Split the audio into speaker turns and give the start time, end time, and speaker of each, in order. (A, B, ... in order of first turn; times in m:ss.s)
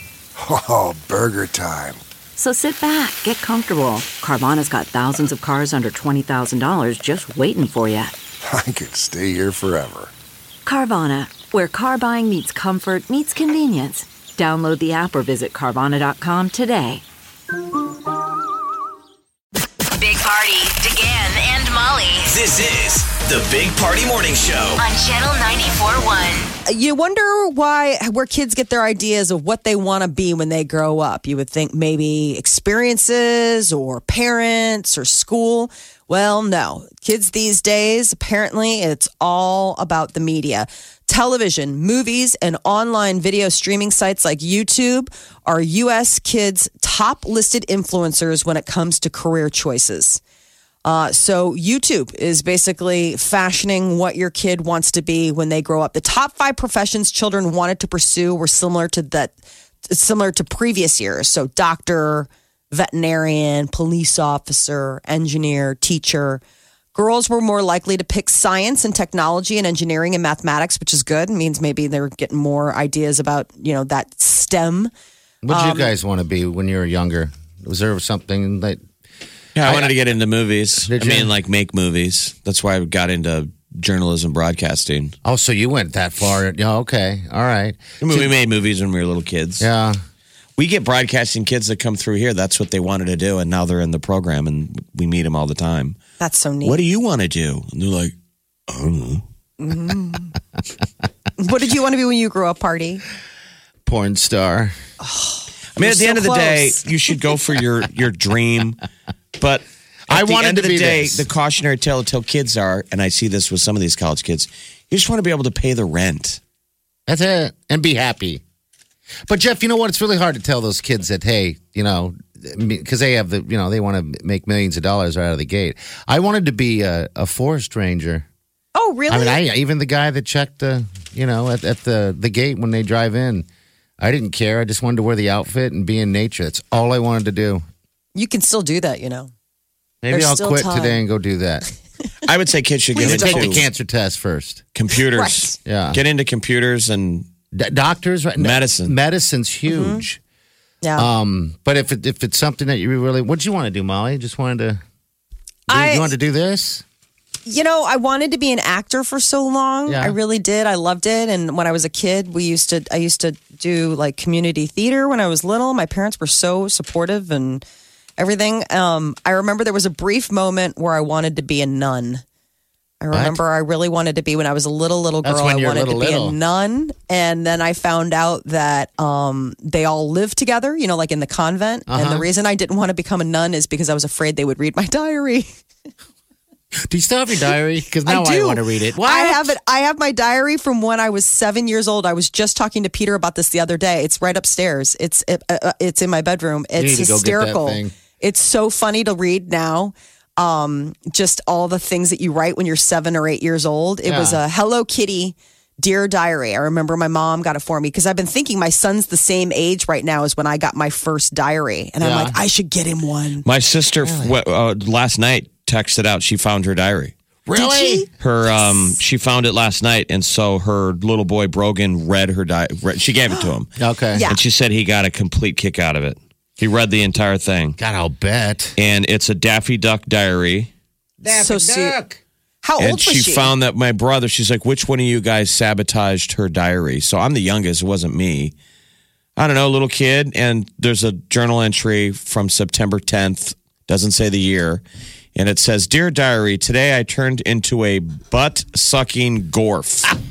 0:00.4-0:02.0 A
0:02.4-0:08.1 B
0:08.4-0:10.1 A
0:10.7-0:17.0 B
0:19.9-0:22.4 C
0:22.3-0:24.8 D
0:24.8-0:26.5 C
0:26.7-0:50.2 E
0:50.8-0:59.4 E
0:59.9-1:06.4 E
1:06.9-1:14.9 E
1:15.4-1:18.8 F
1:15.5-1:15.9 E
1:19.6-1:25.1 G
1:19.6-1:19.9 F
1:20.8-1:21.3 F
1:25.2-1:28.3 F
1:28.0-1:29.7 G
1:29.6-1:30.0 F
1:30.6-1:36.0 G
1:36.2-1:36.8 E
1:36.6-1:38.2 G
1:38.7-1:39.2 G
1:39.6-1:40.3 E
1:41.4-1:43.0 E
1:43.8-1:44.7 F
1:45.0-1:46.8 E
1:45.8-1:48.8 G
1:49.4-1:56.4 G
1:50.1-1:51.3 F
1:57.1-1:58.4 F
1:59.3-2:08.2 F
2:08.8-2:09.4 E
2:09.1-2:13.5 F
2:14.0-2:17.6 F
2:18.2-2:19.3 E
2:20.0-2:21.6 F
2:20.1-2:21.0 E
2:22.2-2:23.6 G
2:23.0-2:23.6 E
2:23.0-2:24.6 F
2:24.7-2:27.3 G
2:25.1-2:25.6 E
2:25.6-2:26.0 F
2:27.5-2:30.2 F
2:28.4-2:29.0 G
2:29.7-2:30.0 E
2:30.8-2:31.1 E
2:31.0-2:34.8 F
2:35.7-2:36.8 F
2:35.7-2:36.1 E
2:37.4-2:47.6 E
2:39.9-2:40.2 F
2:48.2-2:52.2 E
2:53.0-3:05.5 E
2:53.1-2:53.4 F
2:55.2-2:56.4 F
3:01.9-3:02.3 F
3:06.9-3:09.6 F
3:08.1-3:33.4 E
3:16.8-3:17.9 F
3:24.0-3:24.4 F
3:32.0-3:32.4 F
3:33.4-3:37.1 G
3:34.0-3:34.4 F
3:37.5-3:38.0 F
3:37.5-3:38.9 E
3:38.2-3:47.8 G
3:43.8-3:44.3 F
3:44.1-3:44.4 E
3:47.8-3:48.8 F
3:48.8-3:50.7 G
3:51.2-3:52.2 F
3:51.3-3:52.0 E
3:52.6-3:53.5 E
3:52.8-3:58.5 G
3:59.4-4:04.8 G
4:05.4-4:10.1 G